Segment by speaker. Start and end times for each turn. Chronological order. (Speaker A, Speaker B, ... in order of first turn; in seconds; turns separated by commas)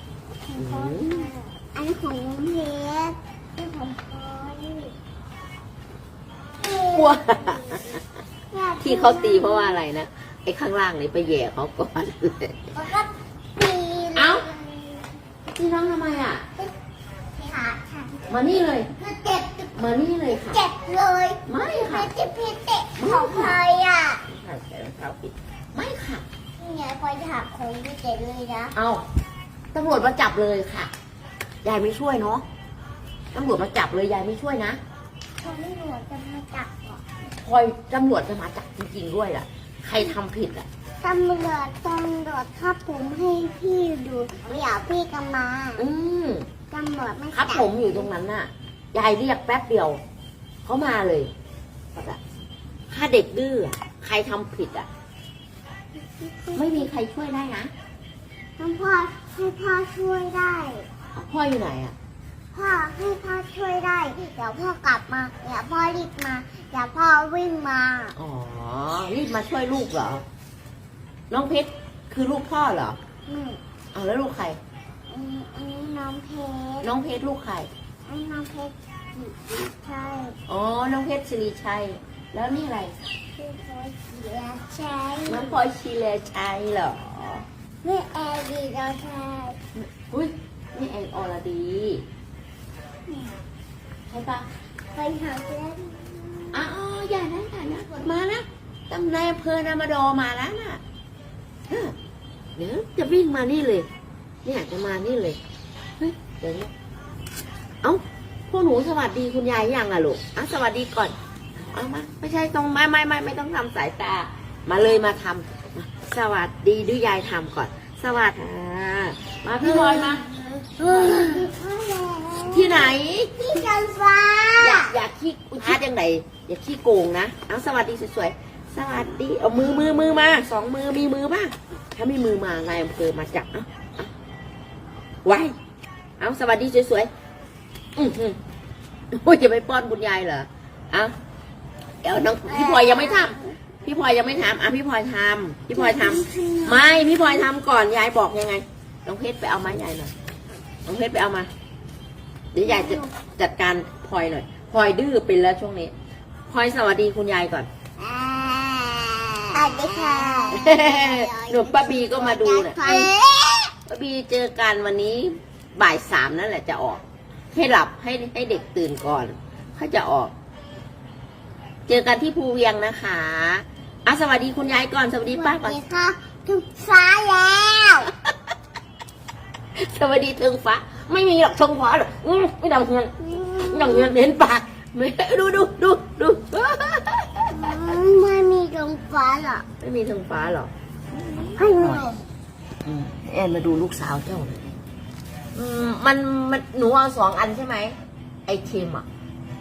Speaker A: 0.5-4.9, Speaker B: 0.6-1.1, Speaker A: 6.6-7.8, Speaker B: 6.9-8.0, Speaker A: 8.5-9.8, Speaker B: 8.8-12.7, Speaker A: 12.8-15.0, Speaker B: 14.2-14.5, Speaker B: 15.5-16.4, Speaker A: 17.4-18.2, Speaker B: 18.3-18.9, Speaker A: 19.0-19.8, Speaker B: 19.8-20.6, Speaker A: 20.3-24.2, Speaker B: 21.5-22.1, Speaker B: 23.0-23.6, Speaker B: 24.3-26.2, Speaker A: 26.6-28.7, Speaker B: 28.7-29.0, Speaker B: 29.7-30.9, Speaker B: 31.6-32.4, Speaker B: 33.3-34.8, Speaker A: 35.4-37.0, Speaker B: 37.4-40.7, Speaker A: 41.0-45.8, Speaker B: 45.8-46.5, Speaker A: 46.7-48.1, Speaker B: 47.3-50.0, Speaker B: 50.6-51.3, Speaker B: 52.9-54.9, Speaker A: 56.0-56.9, Speaker B: 56.5-57.7, Speaker A: 58.6-60.9, Speaker B: 61.1-62.0, Speaker A: 62.5-68.2, Speaker B: 68.2-70.2, Speaker B: 71.3-73.0, Speaker A: 73.3-73.6, Speaker B: 73.9-74.6, Speaker A: 75.1-76.9, Speaker B: 76.8-77.7, Speaker A: 78.1-80.4, Speaker B: 80.5-83.0, Speaker A: 83.4-85.5, Speaker B: 85.3-87.5, Speaker A: 87.8-89.6, Speaker B: 89.8-92.0, Speaker A: 93.1-93.3, Speaker B: 94.1-94.5, Speaker A: 94.9-96.7, Speaker B: 96.5-100.8, Speaker B: 101.7-102.0, Speaker B: 102.6-103.9, Speaker B: 104.4-105.4, Speaker B: 106.0-106.7, Speaker B: 107.8-120.2, Speaker A: 119.6-125.0, Speaker B: 120.8-121.5, Speaker B: 122.5-123.4, Speaker B: 124.6-134.1, Speaker B: 135.2-135.6, Speaker B: 136.2-137.1, Speaker B: 137.9-138.4, Speaker B: 139.1-141.1, Speaker B: 142.0-150.1, Speaker A: 142.5-143.6, Speaker A: 145.7-147.5, Speaker B: 150.9-151.5, Speaker B: 152.5-155.9, Speaker A: 152.7-153.1, Speaker B: 156.5-157.7, Speaker A: 158.0-159.0, Speaker A: 159.5-163.7, Speaker B: 160.5-163.1, Speaker B: 163.9-170.3, Speaker B: 171.9-175.8, Speaker A: 175.3-178.1, Speaker B: 179.8-183.1, Speaker A: 183.2-184.1, Speaker B: 183.7-187.6, Speaker A: 187.5-189.7, Speaker B: 189.8-192.1, Speaker A: 191.6-192.2, Speaker B: 192.8-194.8, Speaker B: 195.5-199.1